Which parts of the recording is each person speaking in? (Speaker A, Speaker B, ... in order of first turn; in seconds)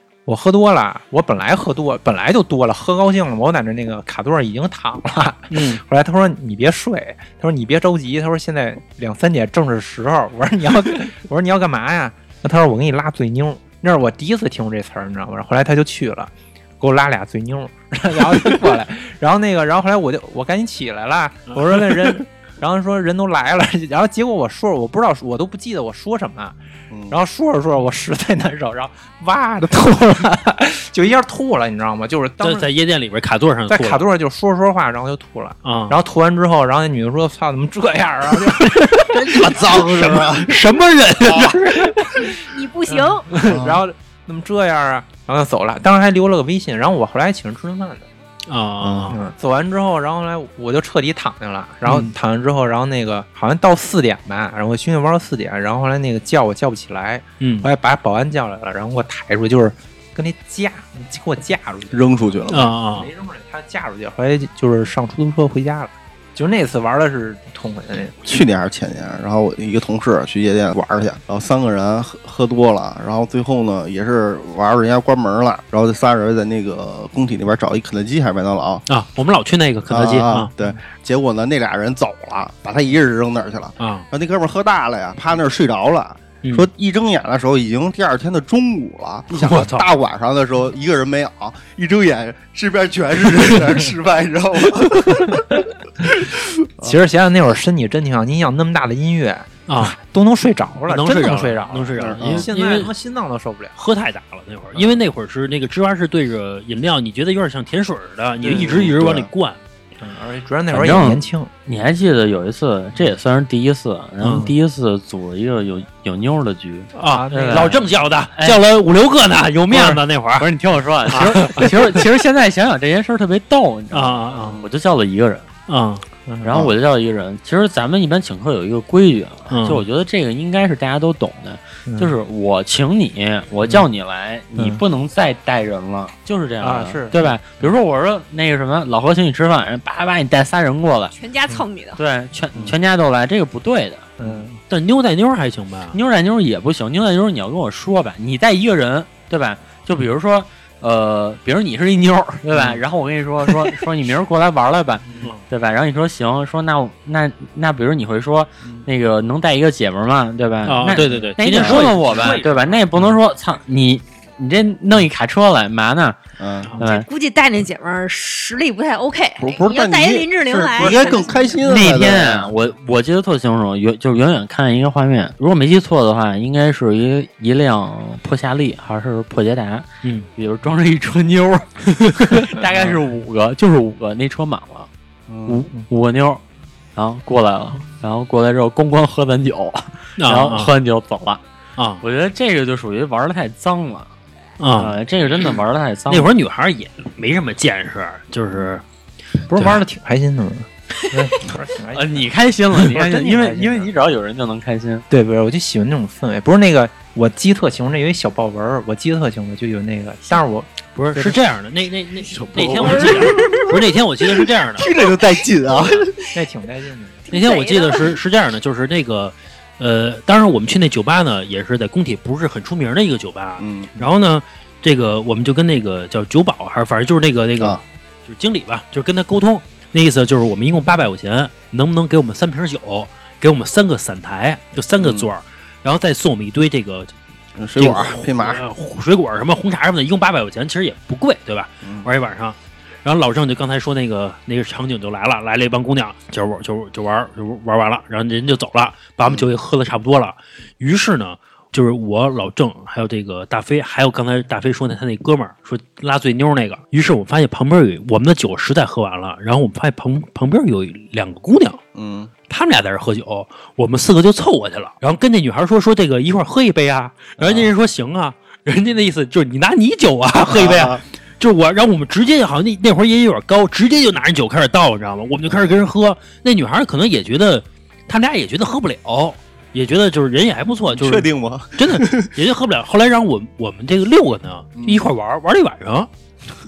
Speaker A: 0.2-26.6, 27.1-32.7, 33.7-39.7, 41.4-42.3, 42.9-48.1, 49.1-68.4, 96.8-103.7, 108.4-108.8, 110.0-111.5, 117.0-117.9, 126.3-126.6, 131.9-132.1, 134.6-134.8, 136.6-137.4, 144.2-144.6, 161.1-163.1, 199.5-203.9, 205.1-211.4, 216.3-217.3
Speaker B: 5.5-5.8, 21.6-22.1, 32.4-34.0, 35.6-36.0, 39.4-42.3, 48.5-49.2, 57.4-57.7, 62.5-63.1, 78.9-80.5, 83.8-84.0, 86.4-86.7, 89.3-89.9, 99.7-100.0, 100.9-102.9, 103.8-109.6, 114.2-114.5, 116.9-120.5, 121.1-122.0, 123.9-124.6, 125.7-126.0, 129.5-129.8, 144.7-145.9, 160.7-162.4, 182.0-182.4, 190.2-190.7, 191.8-192.0, 194.6-194.9, 196.1-198.8, 210.9-214.9, 217.3-237.1, 237.8-261.8, 262.5-286.1
Speaker C: 26.9-27.2, 39.1-40.5, 41.2-41.6, 43.4-43.8, 48.8-49.2, 61.9-62.7, 68.2-78.8, 79.9-96.9, 102.0-102.5, 108.5-109.3, 124.3-124.6, 166.4-166.8, 169.4-172.5, 185.3-185.7, 212.3-216.3, 223.6-224.0, 235.0-235.3, 237.6-238.6, 241.8-242.1, 261.9-262.3, 267.4-267.7, 270.4-271.0, 280.9-282.3, 284.8-285.1
Speaker D: 42.4-43.3, 141.1-142.0, 166.8-171.6, 217.3-218.2
Speaker E: 110.7-118.6, 119.7-125.5, 126.4-141.1, 142.0-144.1, 145.9-166.2, 166.8-167.1, 171.6-184.9, 185.4-186.4, 186.9-191.4, 192.0-194.1, 194.8-196.3, 201.9-205.1